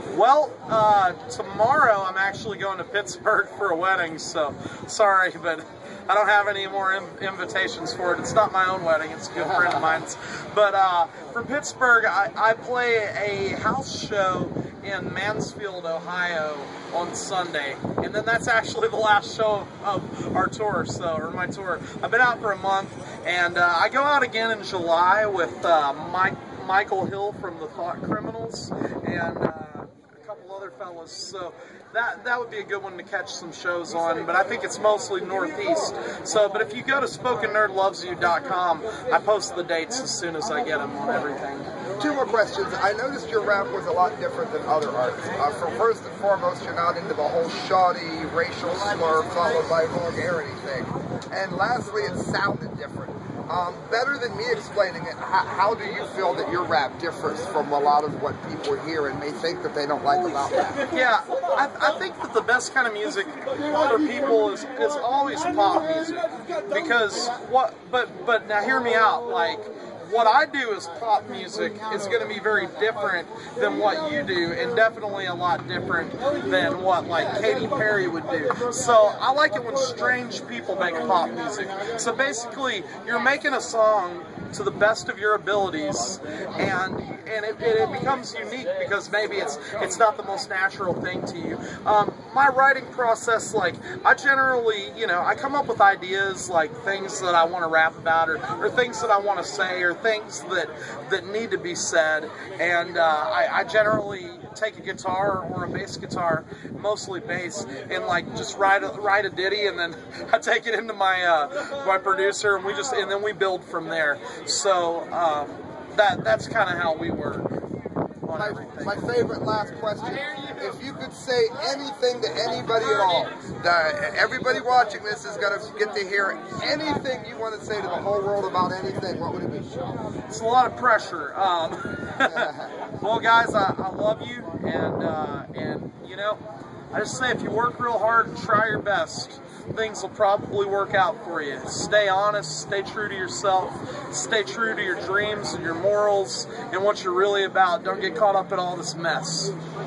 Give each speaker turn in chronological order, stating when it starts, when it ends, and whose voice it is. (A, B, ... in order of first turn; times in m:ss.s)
0:00.1-0:41.7 A
0:42.0-1:00.8 B
1:00.9-1:57.5 A
1:58.2-1:59.2 A
1:58.3-2:10.0 B
2:10.3-2:16.4 A
2:12.2-2:12.7 B
2:16.9-2:29.5 A